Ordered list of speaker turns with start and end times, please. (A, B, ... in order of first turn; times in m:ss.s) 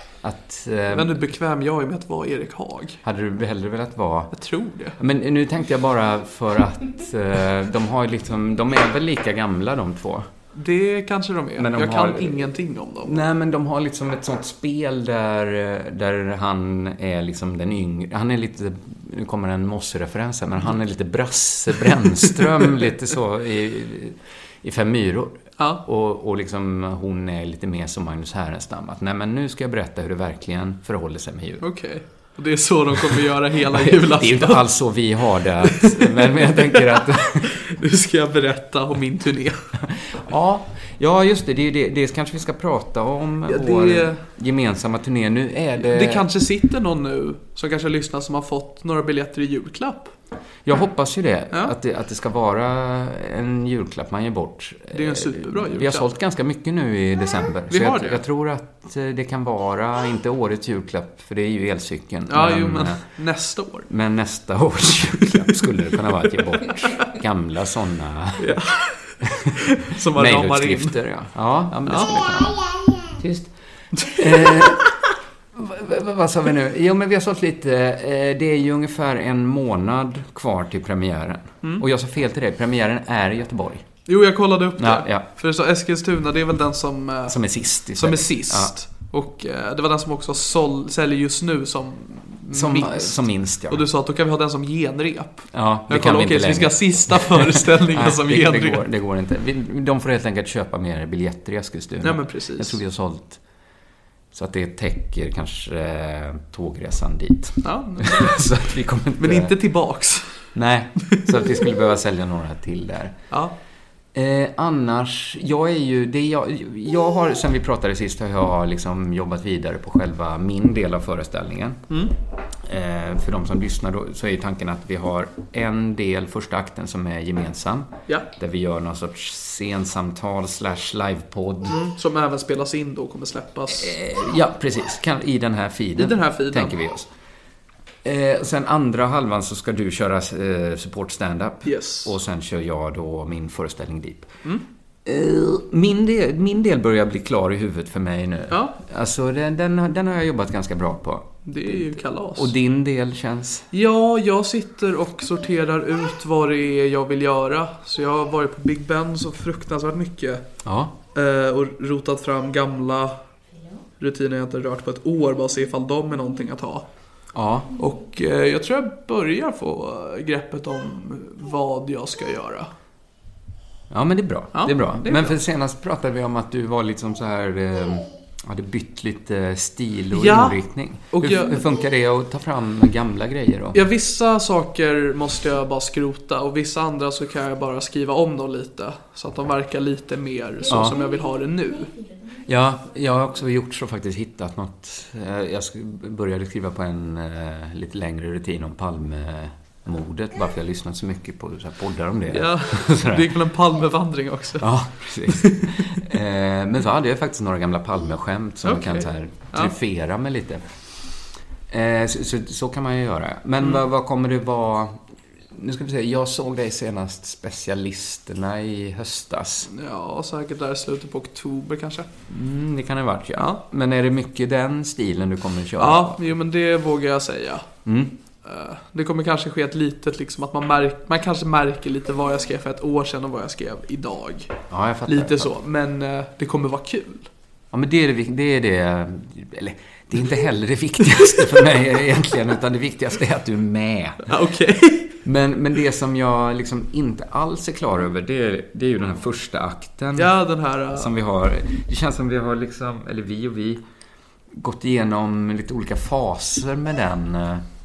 0:00.2-0:01.2 A
0:00.9-0:03.0 B
0:03.0-0:04.3 A
0:04.3-0:05.0 B
0:05.0-0:10.3 A
0:10.6-0:13.2 B
0:11.6-0:12.5 A
0:13.0-0:31.7 A
0:25.6-0:25.8 B
0:31.6-0:34.7 B
0:33.8-0:37.5 A
0:35.6-0:39.8 B
0:40.1-0:46.2 A
0:43.5-0:44.2 B
0:45.8-0:50.1 B
0:50.6-1:03.0 A
0:54.9-0:56.2 B
0:57.7-0:58.2 B
1:02.3-1:03.9 B
1:03.9-1:08.6 A
1:08.4-1:11.0 B
1:09.2-1:09.5 A
1:10.1-1:14.9 A
1:11.9-1:12.2 B
1:14.0-1:14.9 B
1:15.5-1:23.9 A
1:24.1-1:38.8 B
1:24.8-1:25.3 A
1:27.3-1:28.7 A
1:32.5-1:33.8 A
1:35.5-1:43.4 A
1:42.0-1:42.8 B
1:44.3-1:49.5 A
1:47.6-1:48.5 B
1:49.2-1:50.5 B
1:50.6-1:53.2 A
1:51.0-1:51.5 B
1:54.1-2:01.8 A
2:02.6-2:11.8 A
2:11.7-2:14.0 B
2:13.8-2:17.1 A
2:16.0-2:16.8 B
2:18.0-2:24.3 A
2:21.6-2:22.1 B
2:25.0-2:31.8 A
2:28.5-2:28.8 B
2:31.4-2:32.5 B
2:32.4-2:33.7 A
2:33.7-2:40.4 B
2:40.6-2:41.0 A
2:41.1-2:43.2 B
2:44.0-2:46.9 B
2:47.3-2:47.7 A
2:47.8-2:52.7 B
2:53.9-3:03.8 A
2:54.5-2:55.4 B
3:00.1-3:00.6 B
3:01.1-3:01.7 B
3:03.7-3:11.9 B
3:10.7-3:11.0 A
3:12.5-3:23.4 A
3:22.3-3:24.7 B
3:24.6-3:30.6 A
3:25.3-3:25.9 B
3:28.6-3:29.7 B
3:31.7-3:35.0 A
3:35.5-3:39.7 A
3:39.7-3:42.1 B
3:42.3-3:46.2 A
3:45.8-3:47.7 B
3:47.8-3:48.2 A
3:48.4-3:57.3 B
3:54.7-3:55.5 A
3:57.7-4:04.3 A
4:04.3-4:05.2 B
4:05.2-4:10.3 A
4:10.2-4:11.1 B
4:10.9-4:13.8 A
4:14.5-4:17.6 A